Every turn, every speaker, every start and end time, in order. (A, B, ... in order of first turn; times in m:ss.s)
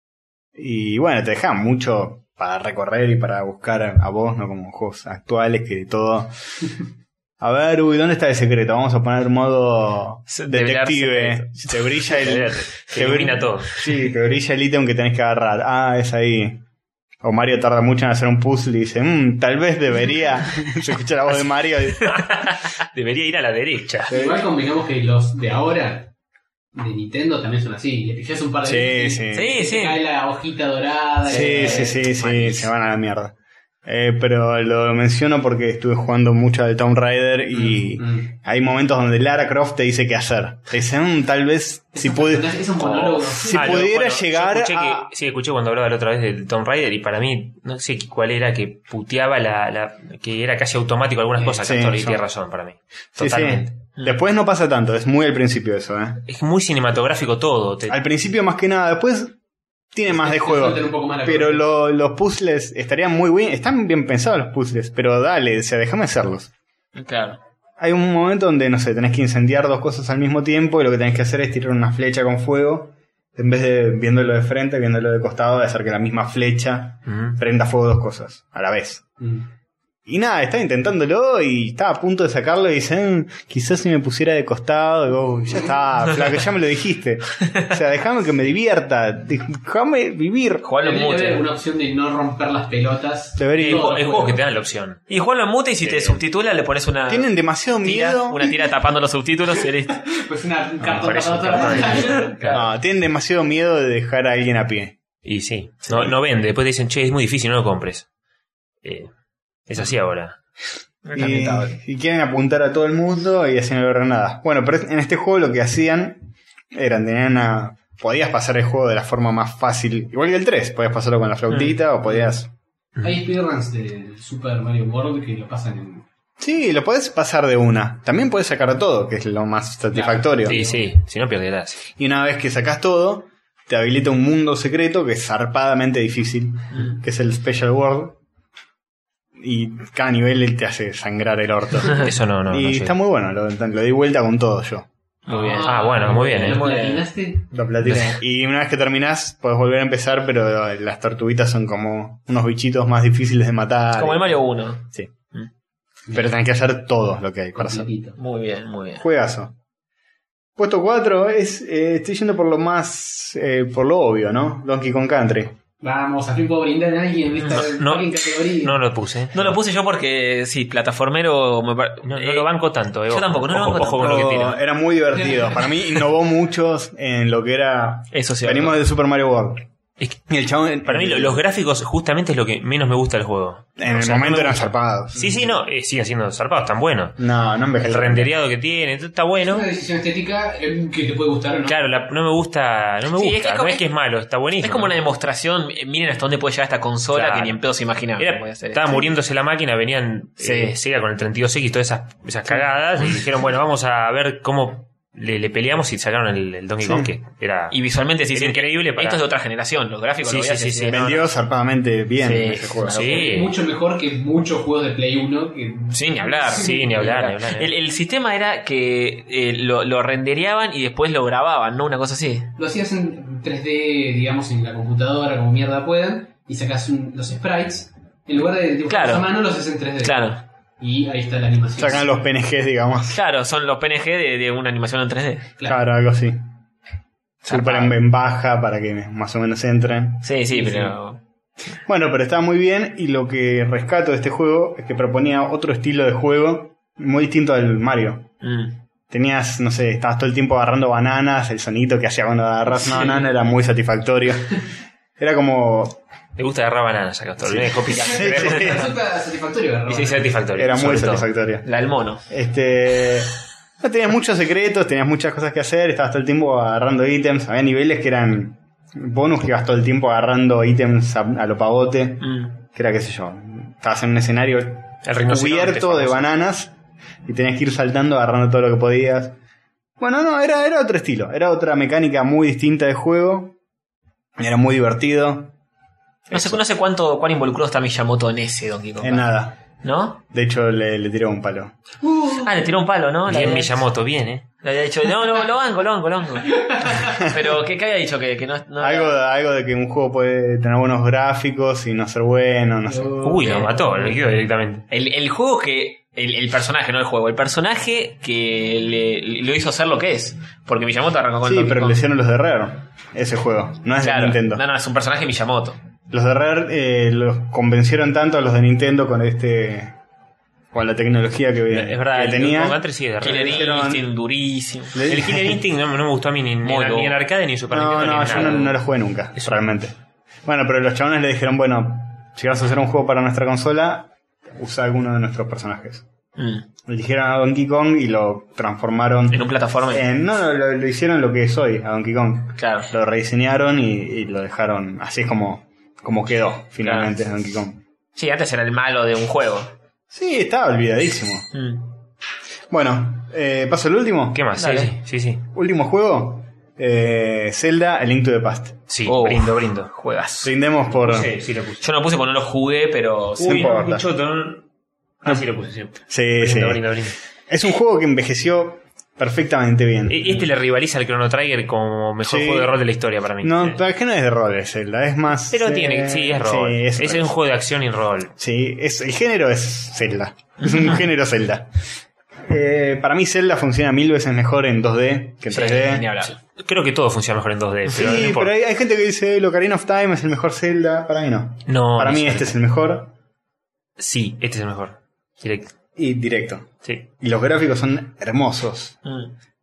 0:00.6-0:06.4 A
0:07.4-0:16.6 A
0:10.3-0:12.5 B
0:12.2-0:13.8 C
0:17.2-0:22.2 A
0:22.1-0:24.2 C
0:24.1-0:26.1 D
0:24.1-0:24.4 A
0:26.8-0:32.0 D
0:28.6-0:29.6 A
0:29.3-0:30.0 B
0:31.3-0:32.7 B
0:31.3-0:42.6 A
0:37.5-0:38.3 D
0:41.9-0:43.9 D
0:42.8-0:43.2 B
0:43.3-0:45.1 A
0:43.5-0:53.7 C
0:51.6-0:52.2 A
0:53.2-0:56.2 A
0:56.3-0:58.0 C
0:57.9-0:59.4 A
0:59.9-1:06.5 A
1:00.1-1:01.7 D
1:07.0-1:07.4 B
1:07.8-1:19.1 A
1:17.1-1:17.4 C
1:20.1-1:30.6 A
1:30.6-1:31.4 B
1:30.8-1:34.4 D
1:33.4-1:34.0 A
1:33.6-1:35.0 C
1:35.1-1:37.3 B
1:35.8-1:36.2 C
1:37.1-1:38.8 A
1:37.8-1:40.1 B
1:40.1-1:42.6 D
1:40.8-1:42.2 C
1:41.4-1:42.7 B
1:42.5-1:45.0 A
1:45.2-1:48.1 C
1:45.9-1:46.1 B
1:48.8-1:49.1 C
1:49.7-1:50.4 C
1:51.1-1:51.7 B
1:51.1-2:02.5 A
2:01.5-2:01.8 B
2:03.0-2:06.1 D
2:06.4-2:10.6 A
2:09.9-2:10.8 D
2:10.5-2:11.8 C
2:12.0-2:18.2 A
2:19.4-2:24.9 A
2:21.9-2:22.9 C
2:25.3-2:27.1 B
2:25.3-2:27.5 D
2:25.5-2:26.6 C
2:27.5-2:34.4 A
2:27.8-2:28.2 C
2:34.0-2:35.5 B
2:36.1-2:37.9 A
2:37.6-2:38.2 D
2:38.2-2:39.0 B
2:39.0-2:39.6 A
2:40.6-2:45.6 A
2:45.8-2:48.8 D
2:47.5-2:49.6 C
2:49.3-2:52.5 B
2:52.0-2:54.6 C
2:53.1-2:54.4 B
2:53.8-2:59.6 A
2:58.1-2:58.8 B
3:00.3-3:01.4 A
3:00.8-3:07.2 C
3:03.8-3:05.6 A
3:07.2-3:08.3 A
3:07.8-3:09.7 C
3:09.4-3:11.8 D
3:11.6-3:15.0 C
3:13.1-3:13.8 B
3:14.6-3:19.1 B
3:17.1-3:17.6 C
3:18.2-3:27.8 C
3:20.4-3:20.7 B
3:26.8-3:27.1 A
3:27.7-3:31.1 B
3:28.3-3:29.2 C
3:30.2-3:31.3 C
3:30.9-3:33.1 A
3:32.2-3:33.4 B
3:32.9-3:33.6 C
3:33.2-3:36.9 D
3:35.9-3:42.5 B
3:36.5-3:37.7 C
3:42.6-3:52.1 D
3:48.9-3:49.3 B
3:50.0-3:50.4 B
3:51.8-3:53.2 A
3:53.1-3:55.5 B
3:55.6-3:56.4 A
3:57.4-3:58.0 B
3:57.4-4:00.3 A
4:00.2-4:01.2 B
4:00.5-4:00.9 D
4:01.9-4:08.3 A
4:08.4-4:08.8 B
4:09.1-4:14.6 A
4:15.2-4:16.0 A
4:16.4-4:18.9 C
4:17.4-4:18.9 A
4:18.0-4:20.3 D
4:18.1-4:18.4 B
4:19.9-4:21.3 C
4:20.6-4:21.7 A
4:21.6-4:22.2 B
4:22.3-4:36.7 A
4:32.2-4:32.5 B
4:35.0-4:36.2 C
4:37.2-4:39.4 A
4:40.0-4:43.6 A
4:44.4-4:45.5 A
4:46.3-4:46.6 A
4:46.3-4:49.3 B
4:49.0-4:49.6 A
4:49.8-4:50.2 B
4:50.3-4:51.8 A
4:52.0-4:52.5 D
4:52.4-4:53.9 B
4:53.3-4:54.5 C
4:54.6-4:59.2 B
4:56.6-4:57.1 D
4:58.8-5:03.4 A
5:02.9-5:03.7 D
5:03.2-5:04.9 C
5:03.4-5:04.2 B
5:04.9-5:12.0 B
5:11.4-5:14.6 A
5:14.0-5:15.8 B
5:16.1-5:20.0 A
5:20.7-5:24.1 A
5:21.7-5:23.8 C
5:23.2-5:25.0 B
5:24.9-5:25.6 A
5:25.0-5:28.8 C
5:26.6-5:27.2 B
5:27.7-5:36.0 A
5:28.2-5:28.6 B
5:36.4-5:36.6 B
5:36.9-5:47.8 A
5:39.3-5:40.0 B
5:42.6-5:42.9 B
5:46.8-5:47.1 B
5:48.2-5:49.7 B
5:50.1-5:51.5 A
5:51.5-5:51.9 B
5:52.7-5:54.4 A
5:54.3-5:55.4 C
5:54.6-5:54.9 B
5:55.5-5:58.8 A
5:58.9-5:59.9 C
5:59.1-6:00.5 B
6:00.4-6:01.3 A
6:00.9-6:01.9 C
6:01.8-6:03.8 B
6:03.4-6:04.6 C
6:03.4-6:04.1 A
6:05.2-6:07.2 C
6:06.1-6:06.8 A
6:07.5-6:10.5 A
6:10.1-6:13.8 C
6:12.2-6:12.8 A
6:13.4-6:17.4 A
6:15.5-6:18.3 C
6:18.4-6:21.7 A
6:22.5-6:26.1 A
6:25.5-6:26.4 B
6:26.2-6:28.5 C
6:27.9-6:33.1 A
6:31.7-6:32.6 C
6:34.0-6:35.7 C
6:36.0-6:39.0 A
6:39.0-6:39.3 B